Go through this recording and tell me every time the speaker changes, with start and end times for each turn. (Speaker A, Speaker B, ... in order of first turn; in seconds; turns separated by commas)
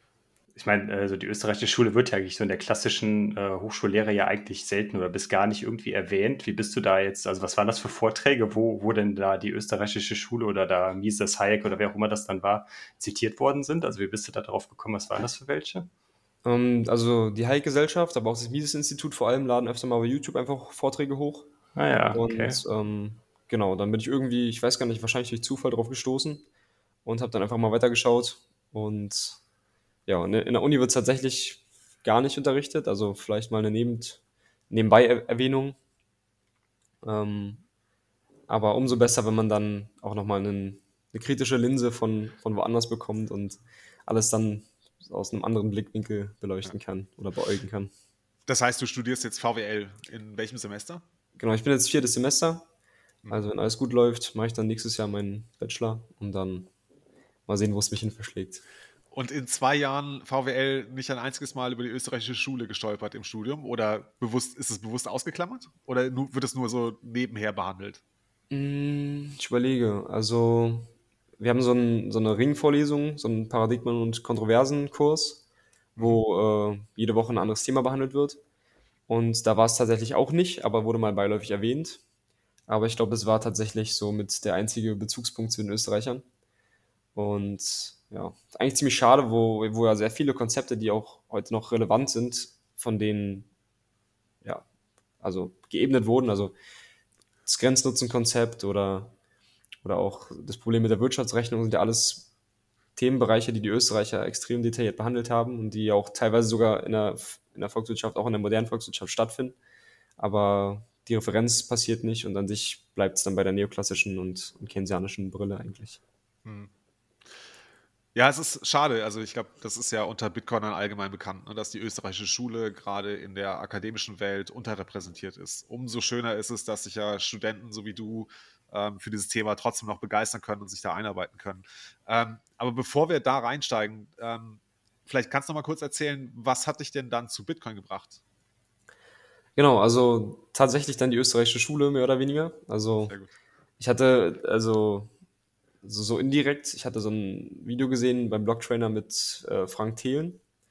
Speaker A: 0.5-15.9, Speaker B: 16.4-21.5, Speaker A: 21.7-22.6, Speaker B: 22.1-26.4, Speaker B: 27.0-29.4, Speaker B: 30.1-35.8, Speaker B: 37.0-37.6, Speaker B: 38.5-47.9, Speaker C: 48.5-51.0, Speaker B: 51.4-52.6, Speaker B: 53.3-56.7, Speaker B: 57.5-58.6, Speaker C: 59.1-68.0, Speaker B: 68.5-75.4, Speaker C: 76.0-76.2, Speaker B: 76.0-78.4, Speaker B: 79.1-82.0, Speaker B: 82.7-86.2, Speaker B: 87.1-93.5, Speaker B: 95.2-96.5, Speaker B: 97.5-99.1, Speaker B: 99.8-102.3, Speaker B: 103.0-109.5, Speaker B: 110.2-116.0, Speaker C: 116.4-116.7, Speaker C: 118.1-138.2, Speaker B: 139.6-143.1, Speaker C: 143.1-143.3, Speaker B: 143.8-145.1, Speaker B: 145.8-150.4